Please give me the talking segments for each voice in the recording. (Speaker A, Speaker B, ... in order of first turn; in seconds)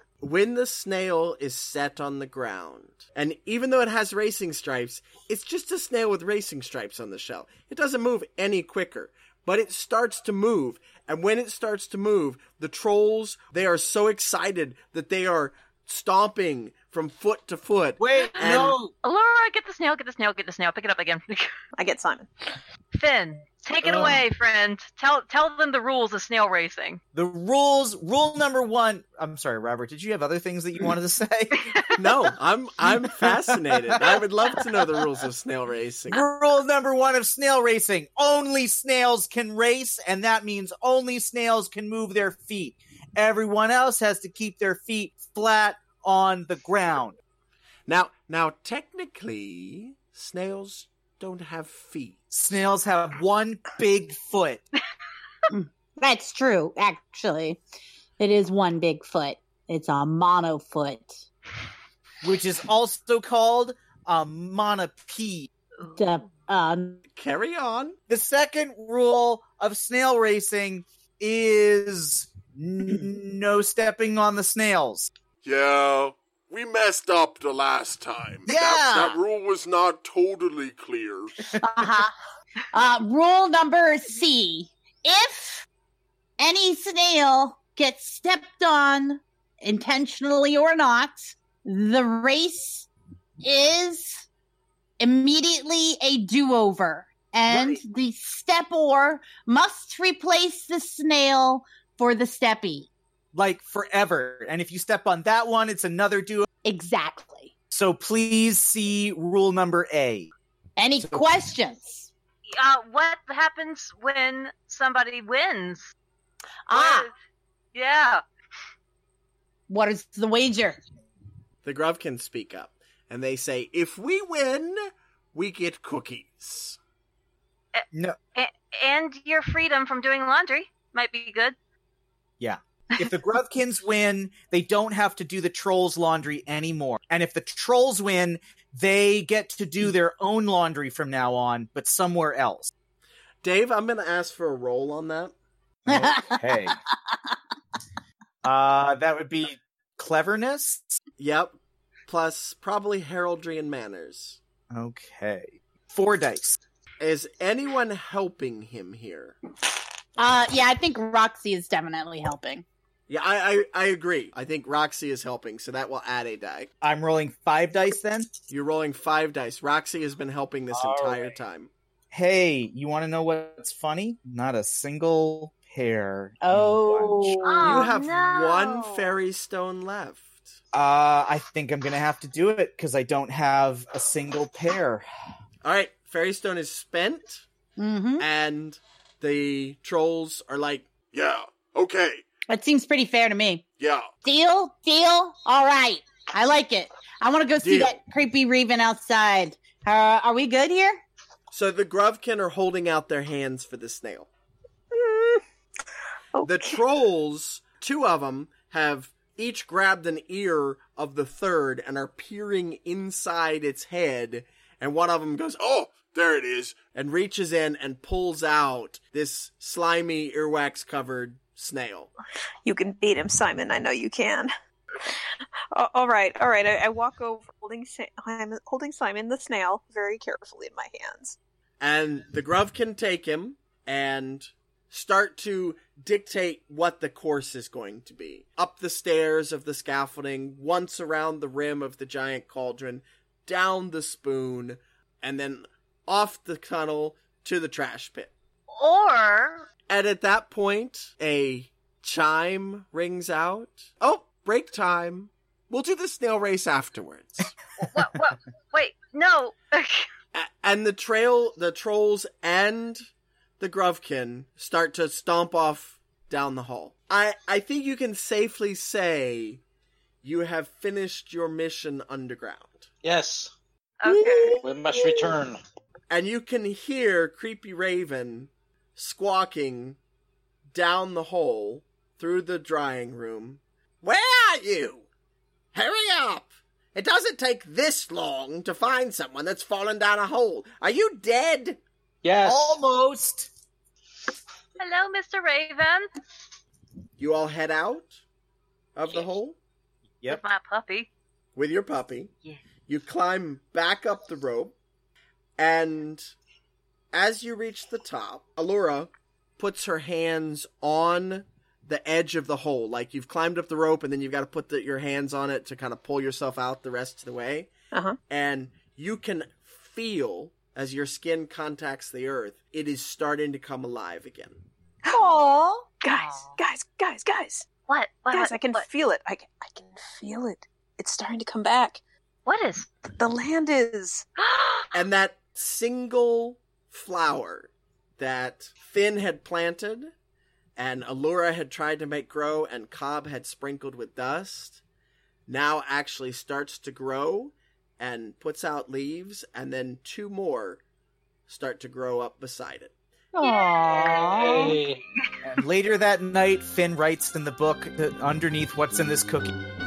Speaker A: 0.2-18.8, 31.9-36.3, 47.9-52.2, 67.1-68.0, 121.6-126.8, 143.4-145.3, 151.2-154.4, 157.0-159.4, 163.1-166.7, 168.5-171.7, 177.6-180.6, 185.6-187.4, 188.2-190.9, 197.6-197.9, 201.5-204.3, 206.4-215.6, 216.9-222.1, 231.8-248.3, 249.9-257.5, 260.3-263.1, 263.6-269.6, 270.2-272.9, 276.1-280.0, 280.7-285.1, 285.7-291.8, 297.2-298.2, 298.9-299.6, 301.6-302.3, 302.9-304.8, 305.6-306.3, 307.1-317.7, 318.3-324.6, 334.9-340.1, 340.8-344.8, 345.5-350.8, 351.5-352.9
Speaker B: 18.0-18.9, 23.8-24.2, 27.1-31.7, 32.8-34.2, 36.1-47.2, 52.3-54.7, 62.2-65.5, 68.1-75.1, 78.5-79.2, 97.5-97.8, 103.3-106.5, 107.7-110.3, 127.9-128.2, 132.4-142.7, 145.9-146.8, 148.4-151.0, 154.7-156.6, 166.8-168.3, 170.7-171.4, 172.1-177.4, 180.7-185.1, 292.4-293.5, 355.4-359.5
Speaker C: 18.2-21.5, 22.9-27.0, 31.6-31.9, 112.5-115.9, 116.7-117.1, 117.7-118.2, 127.7-131.6, 177.4-179.1, 248.7-249.7, 257.8-260.1, 274.0-274.6, 294.8-296.1, 300.3-301.1, 326.1-326.6, 327.9-328.9, 332.4-332.9, 334.4-335.0, 353.4-355.3
Speaker D: 21.8-22.3, 204.9-205.4, 206.3-206.8, 222.6-224.5, 225.0-231.4, 317.9-318.2, 325.0-325.4, 326.0-327.7, 328.3-332.0, 333.2-334.3
Speaker E: 55.5-57.6, 58.2-61.2, 65.9-67.0, 81.6-82.2, 82.7-85.7, 86.4-92.9, 93.4-94.3, 95.0-102.9, 106.6-107.5, 110.8-112.1, 116.7-117.1, 119.7-120.8, 145.9-146.8, 160.2-162.6, 176.4-177.9, 187.8-188.3, 192.5-193.7, 194.2-201.0, 274.1-274.6, 325.2-325.9, 353.3-354.8
Speaker F: 75.4-81.3, 191.1-192.2, 193.8-194.1, 215.6-216.9
Speaker G: 273.0-273.5, 274.6-275.6, 292.2-292.8, 354.3-355.0